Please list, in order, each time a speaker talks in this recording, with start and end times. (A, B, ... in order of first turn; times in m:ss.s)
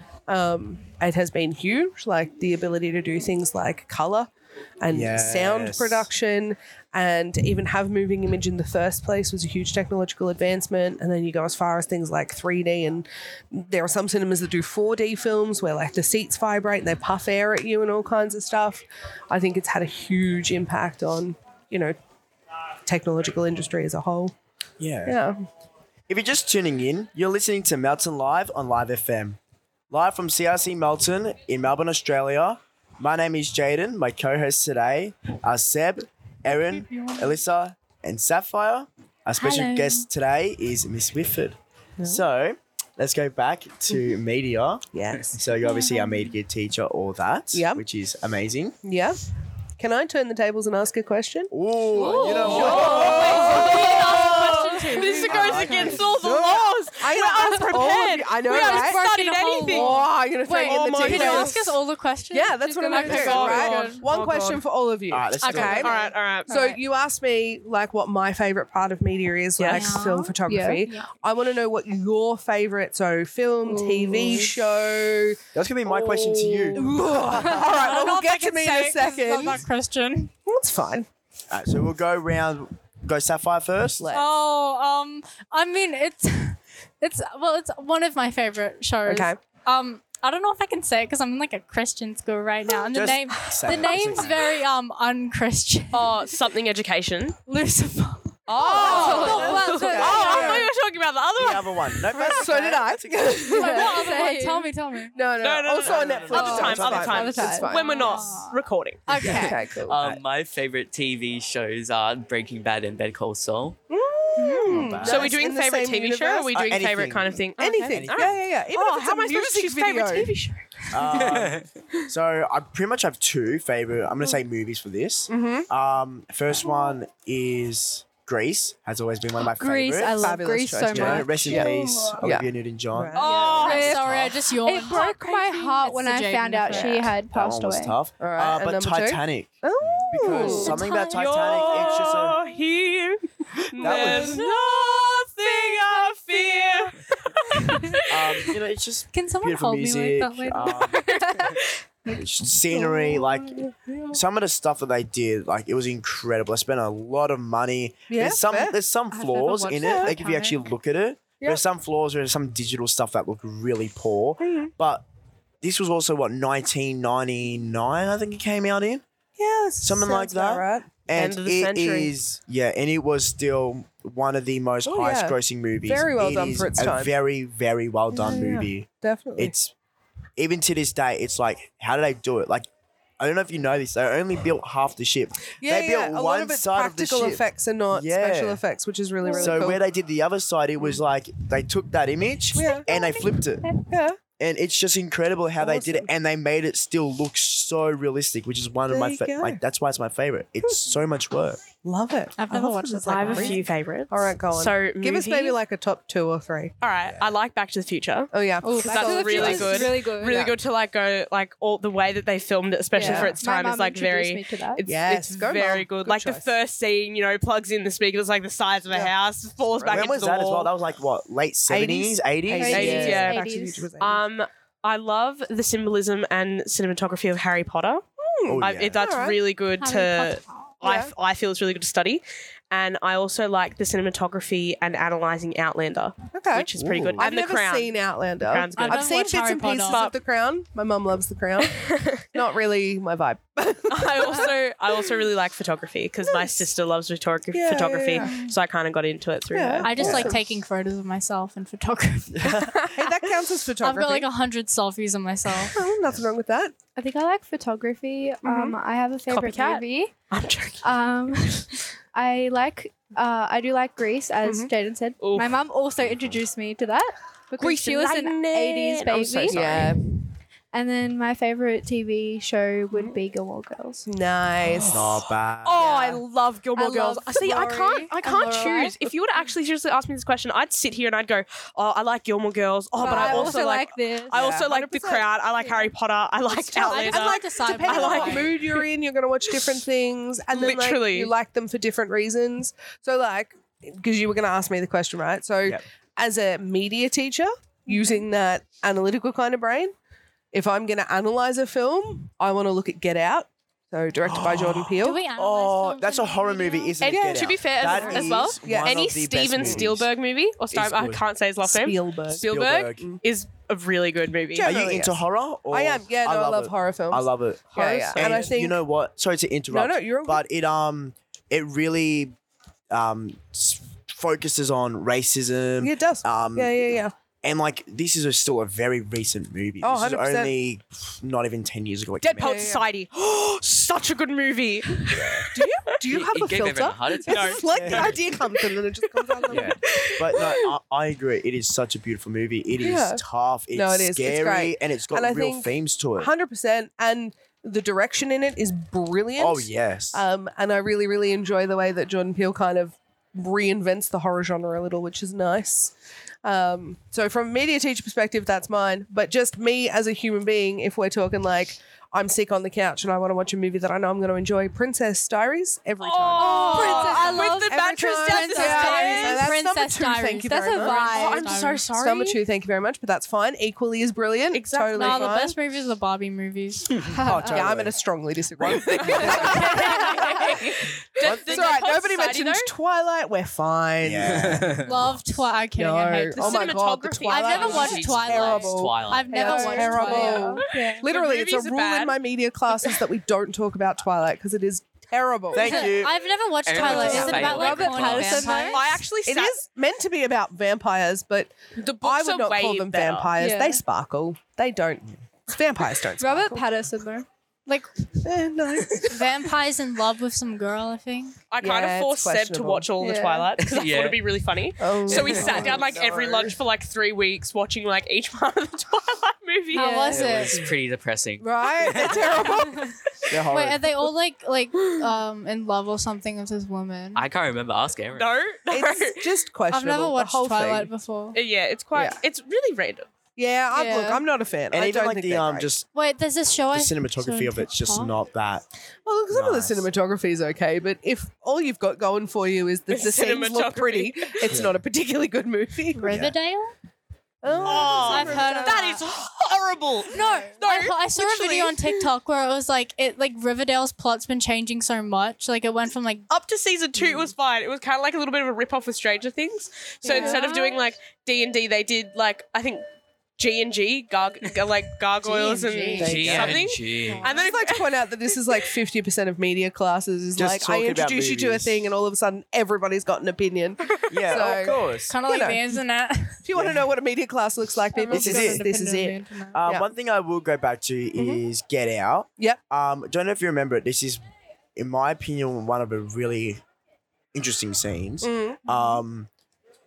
0:00.3-0:22.0 A
0:04.9-0:06.1 B
0:22.8-0:24.3 A
0:24.8-0:25.2 B
0:25.0-0:25.4 A
0:26.1-0:29.4 B
0:29.9-0:48.8 B
0:36.5-0:37.3 C
0:39.4-0:40.0 C
0:42.0-0:42.2 A
0:44.9-0:45.4 A
0:45.6-0:46.3 C
0:47.5-0:47.8 A
0:48.8-0:49.2 A
0:49.8-0:59.0 A
0:51.5-0:53.8 B
0:51.9-0:55.8 C
0:52.0-1:00.1 D
0:55.2-0:56.2 B
0:58.4-1:04.1 C
0:59.6-1:01.6 A
1:00.6-1:01.7 D
1:02.3-1:15.4 A
1:02.9-1:04.6 D
1:05.1-1:05.9 B
1:05.4-1:06.5 D
1:05.4-1:06.8 C
1:09.6-1:09.9 D
1:09.7-1:10.4 C
1:10.4-1:10.8 E
1:13.6-1:14.5 E
1:15.5-1:16.9 B
1:15.9-1:16.6 D
1:16.7-1:19.6 A
1:17.1-1:20.3 C
1:20.4-1:21.1 A
1:21.5-1:24.1 B
1:24.0-1:24.2 A
1:24.1-1:36.3 C
1:29.0-1:29.4 A
1:32.9-1:34.6 B
1:35.9-1:37.4 D
1:37.4-1:40.7 C
1:38.5-1:41.9 D
1:38.5-1:40.7 A
1:38.9-1:39.3 E
1:41.4-1:43.5 B
1:42.1-1:44.0 A
1:43.4-1:45.1 C
1:43.6-1:44.7 E
1:43.8-1:44.2 D
1:45.1-1:48.2 A
1:45.4-1:49.1 D
1:45.8-1:47.5 B
1:46.3-1:49.6 C
1:49.2-1:53.8 F
1:49.3-1:50.0 A
1:53.9-1:56.5 A
1:54.4-1:55.2 C
1:54.6-1:55.3 B
1:55.0-2:01.0 D
1:56.5-1:58.4 B
1:57.6-2:00.3 A
2:00.9-2:10.3 B
2:01.4-2:01.6 F
2:05.3-2:05.7 A
2:09.4-2:12.2 E
2:10.2-2:13.6 A
2:10.9-2:14.4 B
2:13.1-2:14.0 D
2:13.2-2:17.9 E
2:13.3-2:17.2 C
2:17.3-2:22.4 B
2:18.2-2:20.8 A
2:20.3-2:21.3 C
2:20.8-2:28.6 D
2:23.8-2:24.4 B
2:23.8-2:24.3 A
2:24.0-2:24.4 C
2:28.1-2:31.1 B
2:29.1-2:31.0 C
2:30.6-2:31.8 D
2:32.1-2:45.0 B
2:32.7-2:34.2 A
2:38.1-2:38.8 A
2:39.1-2:40.6 C
2:39.8-2:40.1 A
2:44.4-2:44.7 A
2:45.6-2:49.0 B
2:49.4-2:50.9 A
2:49.8-2:59.7 B
2:51.1-2:52.1 D
2:54.8-2:57.1 A
2:58.1-2:59.5 A
3:00.4-3:02.7 B
3:03.2-3:08.6 B
3:05.6-3:09.8 A
3:09.2-3:09.7 E
3:09.4-3:13.8 B
3:12.5-3:12.9 A
3:13.7-3:14.2 A
3:14.4-3:21.6 B
3:15.6-3:16.1 A
3:18.9-3:19.6 A
3:21.8-3:26.7 A
3:22.4-3:23.7 C
3:23.0-3:25.6 D
3:26.8-3:40.7 D
3:28.3-3:30.5 A
3:28.6-3:30.4 E
3:32.9-3:33.4 A
3:33.0-3:34.8 E
3:34.8-3:36.5 A
3:39.8-3:40.1 A
3:39.9-3:43.1 B
3:41.7-3:44.2 A
3:42.6-3:43.9 E
3:42.7-3:43.4 D
3:44.0-3:48.0 D
3:48.2-3:49.4 A
3:48.5-3:49.0 B
3:48.6-4:00.2 D
3:49.8-3:50.7 C
3:50.8-3:51.1 A
3:56.3-4:04.5 A
3:56.8-3:57.2 B
3:58.8-4:00.1 C
4:01.7-4:02.2 D
4:03.9-4:10.3 D
4:06.3-4:06.6 A
4:07.5-4:08.3 A
4:08.2-4:08.5 C
4:09.5-4:10.4 A
4:09.8-4:13.0 C
4:12.4-4:12.6 B
4:12.4-4:14.3 A
4:13.8-4:15.8 C
4:15.7-4:16.7 A
4:17.0-4:20.1 E
4:18.4-4:18.7 A
4:19.3-4:20.9 D
4:20.8-4:30.0 E
4:24.4-4:24.7 A
4:25.2-4:25.6 D
4:26.0-4:26.4 B
4:27.6-4:29.9 D
4:29.5-4:30.0 A
4:29.6-4:29.8 B
4:30.7-4:34.0 E
4:34.0-4:35.1 A
4:34.8-4:36.2 B
4:35.6-4:48.9 D
4:36.8-4:39.0 E
4:43.0-4:44.4 E
4:43.0-4:43.6 A
4:44.3-4:45.3 A
4:46.5-4:59.9 A
4:46.8-4:48.5 C
4:50.5-4:51.3 D
5:00.5-5:05.2 A
5:04.2-5:10.1 B
5:05.0-5:07.2 C
5:07.0-5:09.8 A
5:07.0-5:14.7 D
5:10.7-5:11.2 B
5:11.6-5:13.2 A
5:12.3-5:13.1 B
5:14.5-5:18.8 A
5:14.6-5:22.3 B
5:17.8-5:18.4 D
5:19.7-5:20.4 A
5:22.9-5:32.7 B
5:25.8-5:27.1 A
5:29.8-5:30.5 A
5:32.2-5:35.7 D
5:32.4-5:32.8 A
5:35.1-5:35.5 B
5:35.5-5:40.1 A
5:36.0-5:38.2 F
5:37.3-5:37.6 D
5:37.7-5:38.1 B
5:39.4-5:40.6 D
5:39.5-5:46.3 B
5:42.8-5:43.2 A
5:43.7-6:15.6 A
5:49.4-5:50.2 B
6:06.0-6:09.5 D
6:06.4-6:11.9 C
6:06.8-6:07.7 E
6:10.8-6:12.4 D
6:14.5-6:15.4 D
6:14.9-6:17.0 C
6:17.0-6:17.9 B
6:17.1-6:17.4 E
6:17.2-6:24.7 A
6:18.6-6:19.4 B
6:19.0-6:22.7 D
6:19.3-6:20.4 C
6:21.2-6:21.8 B
6:24.0-6:25.2 B
6:24.8-6:30.6 C
6:25.8-6:35.8 A
6:26.4-6:28.1 D
6:27.4-6:29.4 F
6:29.3-6:30.6 E
6:30.3-6:32.2 D
6:35.5-6:36.2 B
6:35.6-6:39.0 C
6:36.6-6:38.6 F
6:36.8-6:37.3 B
6:37.0-6:37.4 A
6:37.0-6:38.8 E
6:38.6-6:39.6 D
6:39.2-6:46.6 A
6:41.8-6:43.3 D
6:43.4-6:43.8 E
6:46.2-6:47.3 E
6:47.6-6:47.9 C
6:48.2-6:49.3 A
6:49.0-6:51.4 C
6:51.5-7:00.2 D
6:51.6-6:52.9 A
6:53.0-6:53.5 E
6:53.6-6:54.3 F
6:54.8-6:56.6 A
6:55.4-6:56.0 F
6:59.7-7:00.6 C
6:59.7-7:00.2 E
7:00.0-7:02.8 F
7:01.4-7:02.9 A
7:03.3-7:04.0 B
7:03.4-7:07.2 C
7:07.1-7:08.3 F
7:08.1-7:09.2 D
7:08.7-7:10.9 A
7:09.7-7:11.4 C
7:11.3-7:13.1 D
7:13.4-7:15.7 A
7:13.7-7:14.2 C
7:14.7-7:15.8 B
7:15.9-7:18.1 C
7:16.7-7:18.6 B
7:19.0-7:26.1 A
7:19.3-7:19.9 B
7:22.9-7:24.4 D
7:24.5-7:24.7 B
7:25.9-7:26.7 C
7:26.1-7:26.3 B
7:27.4-7:29.0 A
7:27.4-7:28.2 B
7:27.6-7:31.1 D
7:27.9-7:29.1 C
7:30.1-7:36.3 C
7:30.1-7:30.5 A
7:31.2-7:31.7 A
7:36.3-7:42.8 D
7:37.0-7:37.3 A
7:40.0-7:40.8 A
7:40.1-7:40.5 C
7:43.4-7:48.7 D
7:45.2-7:46.6 A
7:46.0-7:47.2 F
7:46.2-7:46.5 B
7:47.1-7:47.5 C
7:47.2-7:55.7 A
7:50.4-7:51.9 B
7:54.1-7:55.1 B
7:55.0-7:56.4 C
7:56.4-7:59.9 A
7:56.5-7:56.9 B
7:57.9-7:59.6 C
7:58.1-7:58.7 B
7:59.5-8:04.2 B
8:01.1-8:01.4 A
8:04.7-8:06.6 B
8:07.3-8:09.3 B
8:08.2-8:08.6 A
8:08.6-8:09.0 C